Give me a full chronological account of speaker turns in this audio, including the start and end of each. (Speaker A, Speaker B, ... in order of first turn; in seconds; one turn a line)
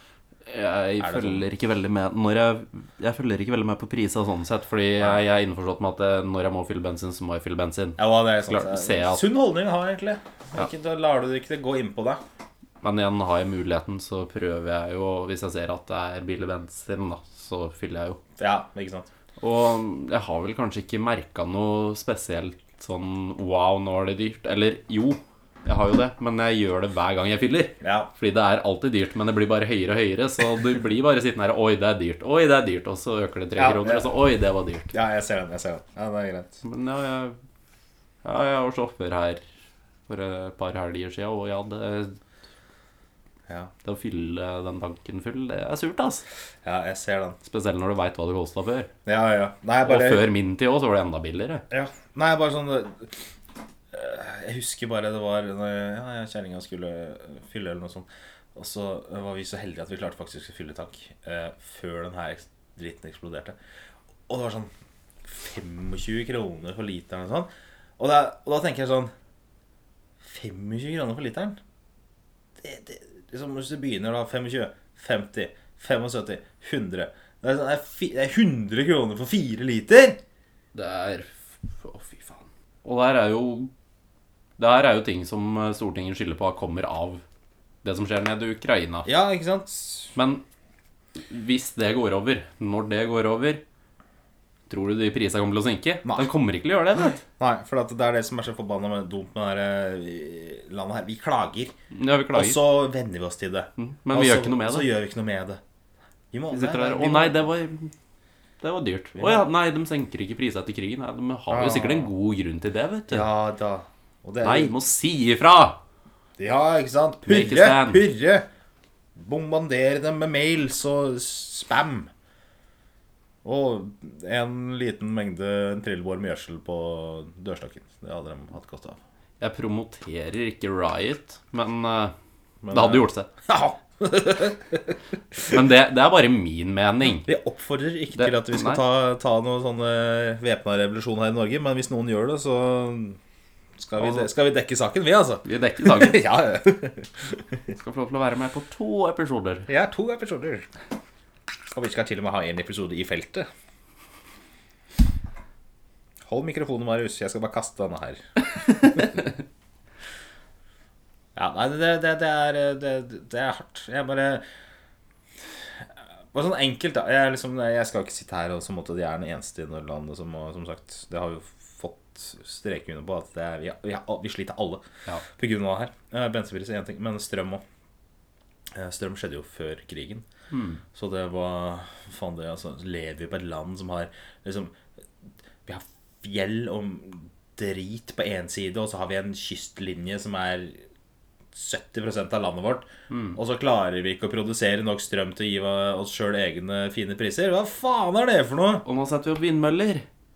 Speaker A: 0.5-9.2
Speaker B: 1.0-1.4
Speaker B: 8.0-12.2
Speaker A: 12.8-18.2
Speaker B: 18.4-19.1
Speaker A: 19.4-34.9
Speaker B: 27.8-28.1
Speaker B: 33.5-34.2
Speaker B: 34.9-36.6
Speaker A: 36.6-37.4
Speaker A: 38.2-39.4
Speaker A: 40.1-42.2
Speaker A: 43.8-46.2
Speaker B: 46.6-47.4
Speaker A: 47.4-48.9
Speaker B: 49.0-50.2
Speaker A: 49.8-51.6
Speaker B: 51.7-53.1
Speaker B: 53.9-63.5
Speaker B: 64.3-64.7
Speaker B: 65.2-67.5
Speaker B: 68.0-69.1
Speaker B: 70.2-71.6
Speaker B: 72.6-80.2
Speaker A: 80.7-83.7
Speaker A: 84.6-87.2
Speaker A: 87.8-89.1
Speaker B: 89.0-90.1
Speaker A: 90.1-90.4
Speaker A: 91.3-93.6
Speaker A: 94.7-97.2
Speaker B: 96.0-96.3
Speaker B: 97.2-101.7
Speaker A: 101.9-102.6
Speaker B: 102.3-105.6
Speaker A: 103.8-104.9
Speaker B: 106.3-107.5
Speaker A: 106.5-107.9
Speaker A: 108.6-113.3
Speaker B: 109.2-109.5
Speaker B: 111.5-112.1
Speaker B: 113.1-114.7
Speaker A: 114.4-115.8
Speaker B: 116.4-118.5
Speaker A: 117.2-118.1
Speaker B: 119.1-122.1
Speaker B: 123.4-129.0
Speaker A: 129.4-132.1
Speaker B: 132.6-134.9
Speaker A: 132.7-133.3
Speaker A: 135.4-137.3
Speaker B: 137.2-143.2
Speaker A: 138.2-138.8
Speaker B: 143.8-147.3
Speaker A: 144.0-144.2
Speaker A: 145.4-146.3
Speaker A: 147.7-149.7
Speaker B: 149.7-150.7
Speaker B: 151.7-153.5
Speaker B: 156.2-159.2
Speaker B: 161.3-164.4
Speaker B: 165.8-174.8
Speaker B: 175.4-177.6
Speaker B: 178.7-180.2
Speaker A: 180.5-180.8
Speaker B: 180.9-184.8
Speaker B: 185.6-190.8
Speaker B: 191.5-198.8
Speaker A: 193.1-193.4
Speaker A: 198.8-200.0